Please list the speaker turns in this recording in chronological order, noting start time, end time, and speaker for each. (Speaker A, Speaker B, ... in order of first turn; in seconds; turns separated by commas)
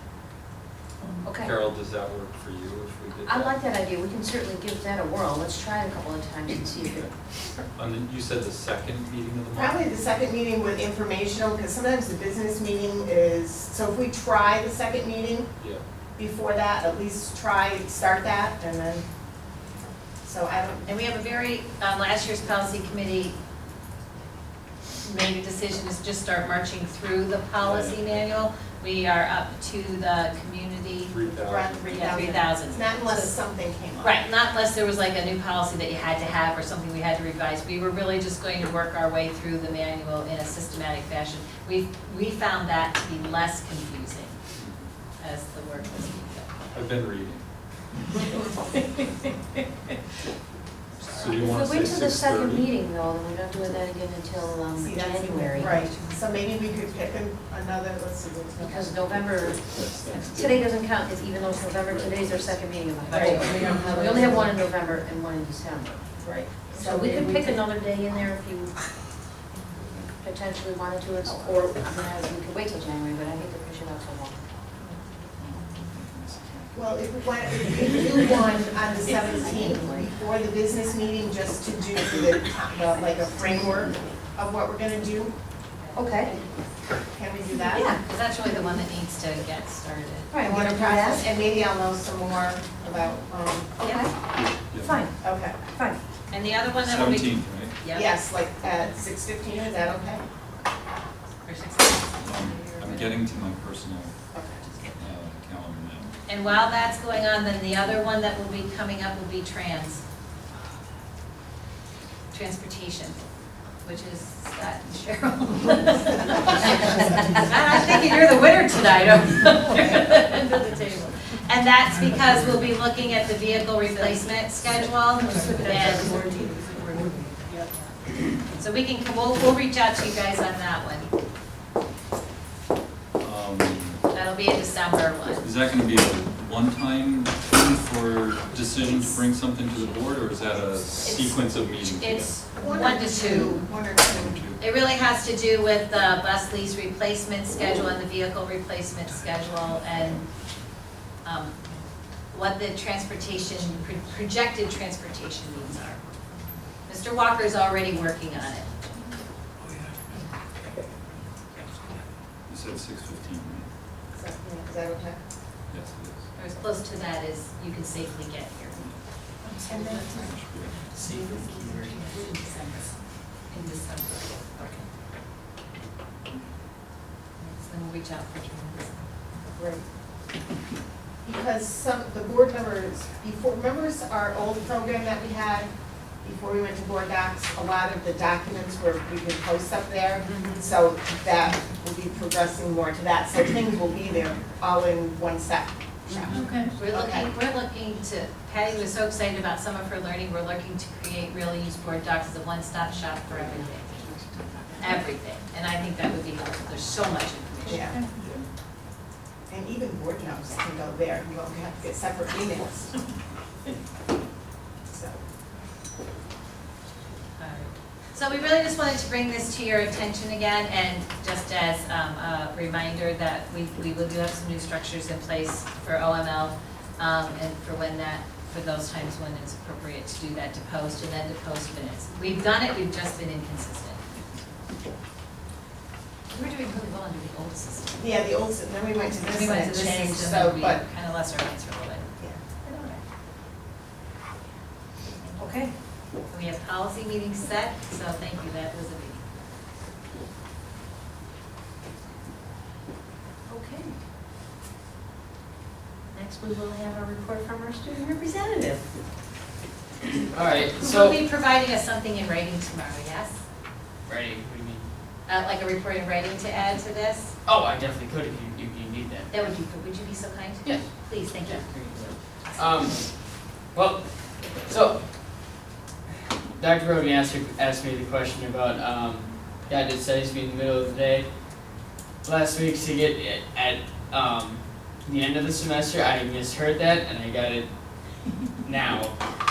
Speaker A: 1.2-1.5, Speaker B: 1.3-3.6, Speaker A: 3.2-7.1, Speaker B: 6.8-7.1, Speaker B: 7.7-10.0, Speaker C: 9.5-15.5, Speaker B: 15.6-15.8, Speaker C: 16.1-19.0, Speaker C: 20.2-20.9, Speaker D: 20.8-23.4, Speaker D: 25.0-31.2, Speaker B: 27.6-28.4, Speaker B: 31.1-32.3, Speaker C: 31.4-34.2, Speaker D: 31.8-33.4, Speaker D: 34.0-44.4, Speaker B: 44.5-44.9, Speaker D: 45.2-46.8, Speaker B: 46.7-47.4, Speaker D: 51.0-51.4, Speaker B: 51.0-52.7, Speaker A: 51.4-55.9, Speaker C: 54.8-59.2, Speaker D: 55.6-56.2, Speaker A: 58.6-59.6, Speaker B: 59.6-60.7, Speaker A: 60.3-66.0, Speaker B: 61.9-63.7, Speaker C: 63.1-64.5, Speaker C: 66.2-67.6, Speaker A: 66.7-68.8, Speaker A: 70.2-74.4, Speaker B: 75.8-76.9, Speaker C: 76.7-85.3, Speaker A: 79.2-80.1, Speaker A: 82.9-83.8, Speaker D: 85.8-86.5, Speaker A: 85.9-86.3, Speaker C: 87.1-87.9, Speaker A: 87.7-88.0, Speaker D: 87.8-90.3, Speaker A: 90.3-91.2, Speaker C: 90.4-93.8, Speaker A: 93.8-94.1, Speaker B: 94.3-95.1, Speaker A: 94.8-96.0, Speaker C: 95.2-95.6, Speaker D: 96.3-98.1, Speaker B: 96.8-97.8, Speaker C: 97.9-100.2, Speaker D: 101.4-103.2, Speaker B: 102.2-104.1, Speaker C: 104.3-104.6, Speaker B: 104.9-106.1, Speaker D: 106.2-110.0, Speaker D: 112.3-113.2, Speaker D: 113.8-126.3, Speaker A: 125.2-127.4, Speaker D: 128.3-131.1, Speaker B: 133.2-134.0, Speaker D: 134.1-135.5, Speaker B: 135.4-142.4, Speaker D: 138.8-139.2, Speaker D: 141.0-143.6, Speaker C: 142.5-144.4, Speaker B: 143.9-144.6, Speaker D: 144.6-150.3, Speaker D: 151.2-151.6, Speaker D: 152.3-156.0, Speaker D: 156.8-158.7, Speaker E: 159.6-160.0, Speaker B: 162.5-163.7, Speaker C: 164.1-165.2, Speaker B: 165.7-166.2, Speaker D: 166.3-168.9, Speaker D: 169.4-174.8, Speaker C: 169.6-170.3, Speaker B: 170.1-170.8, Speaker E: 170.9-172.3, Speaker D: 177.4-179.1, Speaker C: 179.5-179.8, Speaker C: 181.2-196.3, Speaker D: 190.2-190.6, Speaker D: 196.1-204.1, Speaker C: 196.9-197.3, Speaker A: 204.0-204.9, Speaker D: 204.8-208.0, Speaker C: 207.7-208.1, Speaker C: 209.5-213.0, Speaker C: 214.9-215.2, Speaker D: 217.4-234.0, Speaker D: 236.3-238.0, Speaker C: 238.0-240.8, Speaker D: 239.3-242.1, Speaker D: 242.6-243.0, Speaker D: 245.1-245.5, Speaker A: 245.4-245.7, Speaker D: 246.3-249.2, Speaker A: 253.5-253.9, Speaker A: 256.1-258.8, Speaker E: 260.1-261.2, Speaker D: 260.8-263.4, Speaker E: 264.1-264.9, Speaker D: 265.3-267.3, Speaker E: 267.4-269.4, Speaker D: 269.3-273.0, Speaker E: 270.6-275.5, Speaker E: 276.6-289.2